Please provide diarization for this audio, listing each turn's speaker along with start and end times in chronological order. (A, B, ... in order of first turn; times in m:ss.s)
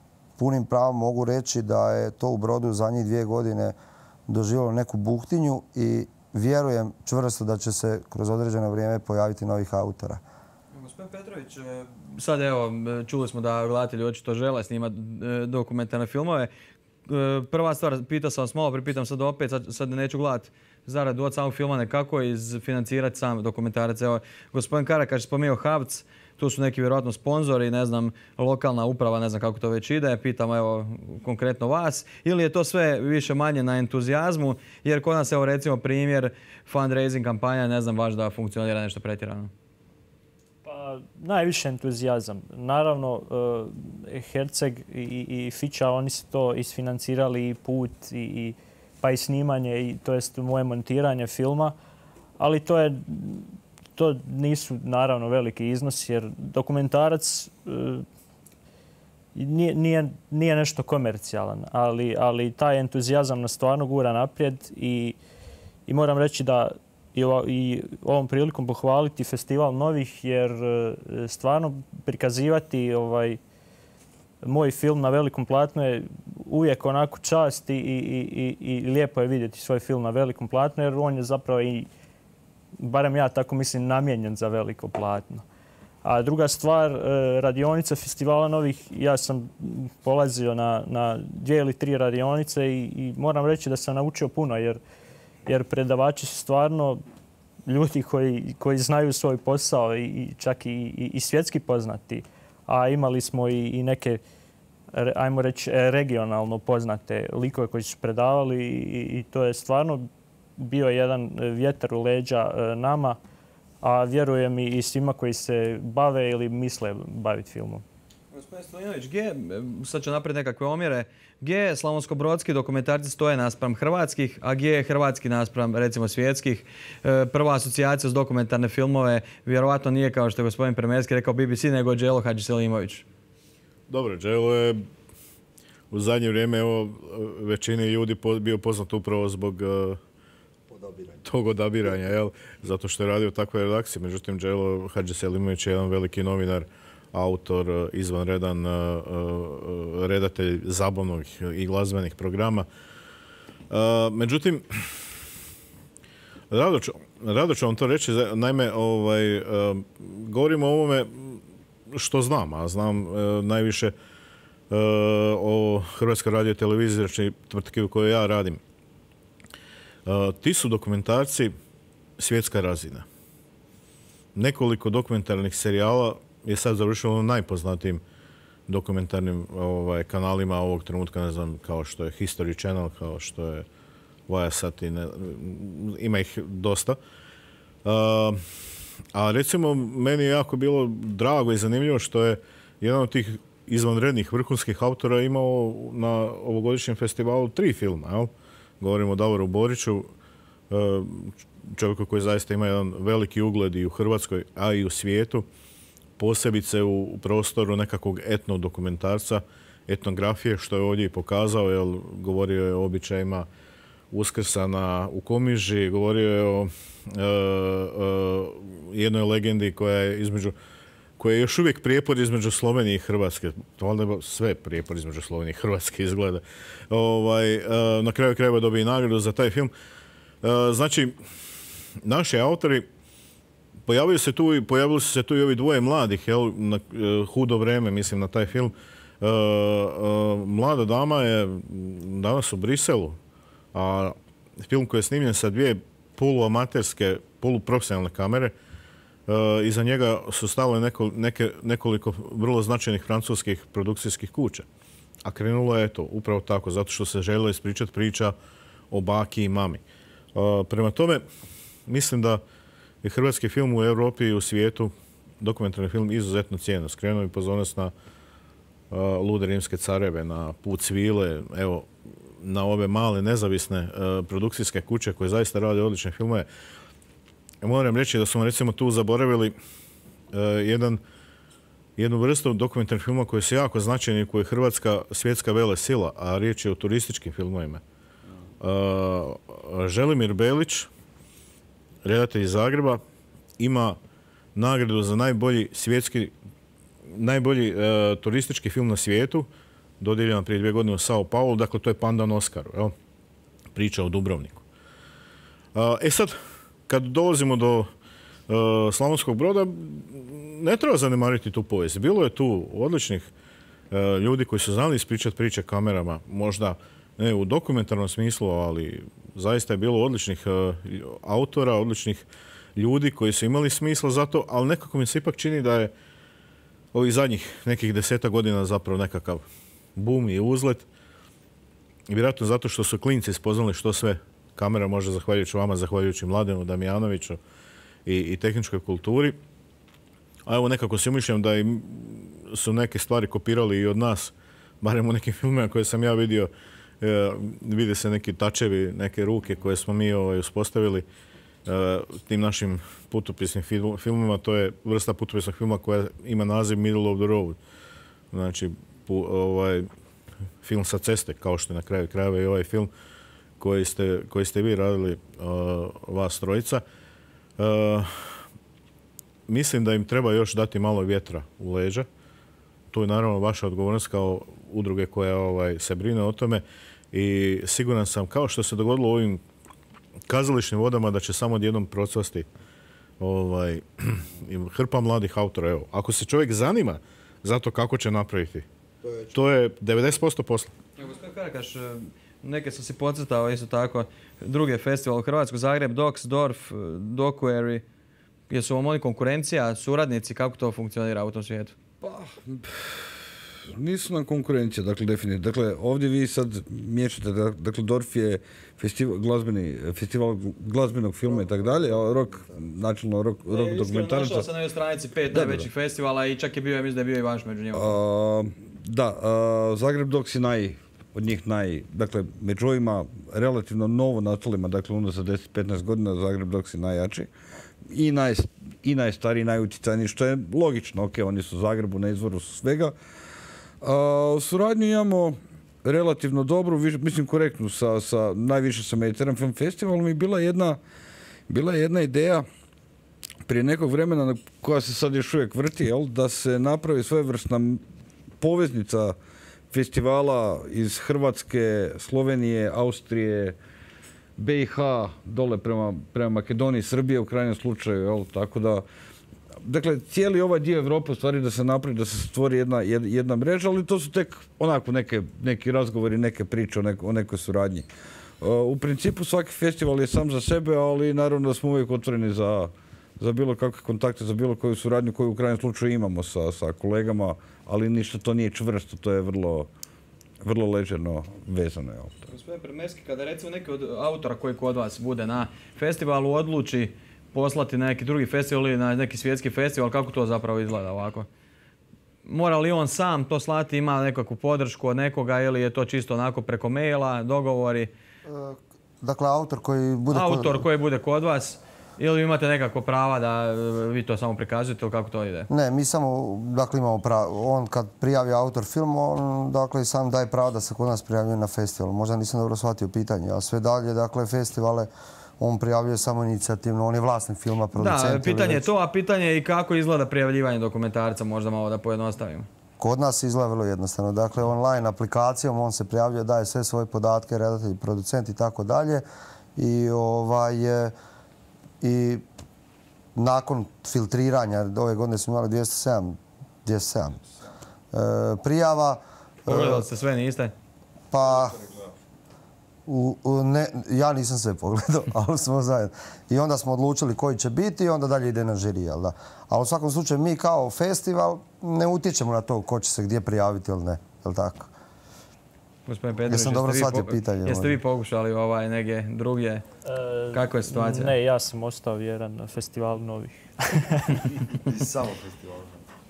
0:00.4-0:03.8 A
0:04.3-0:10.2 A
0:10.7-0:16.5 B
0:17.1-0:39.5 B
0:40.6-0:51.8 C
0:52.4-0:58.0 C
0:59.4-1:05.2 C
1:05.9-1:13.4 C
1:14.4-1:21.9 C
1:22.8-1:25.4 C
1:26.0-1:34.8 C
1:35.5-1:37.0 C
1:37.7-1:44.2 C
1:44.9-1:53.2 C
1:53.8-1:57.8 C
1:58.3-2:13.0 B
2:13.9-2:14.8 D
2:15.9-2:20.0 D
2:21.2-2:32.7 D
2:33.7-2:35.1 D
2:36.5-2:43.9 D
2:44.7-2:48.6 D
2:50.1-2:51.5 D
2:52.2-2:53.0 D
2:54.4-2:58.0 D
2:58.7-3:03.7 D
3:04.3-3:07.0 D
3:07.8-3:08.4 D
3:09.1-3:20.1 D
3:20.7-3:25.5 D
3:26.2-3:33.5 D
3:34.1-3:40.6 D
3:41.2-3:49.7 D
3:50.4-3:51.2 D
3:52.0-3:52.9 D
3:53.9-4:03.2 D
4:03.7-4:08.5 D
4:09.3-4:14.7 D
4:15.2-4:18.4 D
4:18.9-4:19.8 D
4:20.4-4:21.2 D
4:21.9-4:22.4 D
4:23.0-4:27.9 D
4:28.9-4:31.9 D
4:32.4-4:36.5 D
4:37.6-4:39.6 D
4:40.3-4:41.0 D
4:42.0-4:47.8 D
4:48.6-4:50.9 D
4:52.0-4:53.0 D
4:53.6-4:54.0 D
4:54.6-4:56.3 D
4:57.1-4:59.5 D
5:00.0-5:02.9 D
5:03.8-5:04.6 D
5:05.8-5:06.4 D
5:06.9-5:07.9 D
5:08.5-5:13.3 D
5:13.9-5:25.9 D
5:26.9-5:29.4 D
5:30.0-5:30.8 D
5:32.1-5:37.4 D
5:38.1-5:39.4 D
5:40.5-5:46.5 D
5:47.0-5:51.1 D
5:51.7-5:57.6 D
5:58.3-5:59.9 D
6:00.6-6:02.9 D
6:03.6-6:06.8 D
6:07.6-6:08.4 D
6:09.5-6:12.1 D
6:12.9-6:19.4 D
6:20.3-6:22.5 D
6:23.2-6:28.7 D
6:29.3-6:30.7 D
6:31.0-6:37.8 B
6:38.5-6:41.8 B
6:42.0-6:43.1 E
6:43.7-6:54.5 E
6:53.5-6:58.0 B
6:55.3-6:55.7 E
6:57.7-7:07.3 E
7:07.9-7:12.9 E
7:13.8-7:20.8 E
7:21.5-7:22.5 E
7:23.4-7:27.8 E
7:28.4-7:29.2 E
7:29.7-7:33.6 E
7:34.4-7:38.8 E
7:39.6-7:47.9 E
7:48.4-7:59.7 E
8:00.4-8:02.2 E
8:02.3-8:11.3 B
8:12.3-8:17.9 B
8:18.2-8:20.6 A
8:20.1-8:25.5 B
8:25.5-8:38.7 A
8:37.8-8:42.5 B
8:42.8-8:49.0 A
8:49.6-8:50.9 A
8:51.8-8:52.2 A
8:53.2-8:57.2 A
8:57.9-8:59.9 A
8:59.5-9:00.5 B
9:01.1-9:01.6 A
9:02.9-9:14.7 A
9:15.9-9:19.6 B
9:16.3-9:17.8 A
9:19.9-9:24.3 C
9:20.3-9:21.2 B
9:24.7-9:25.8 A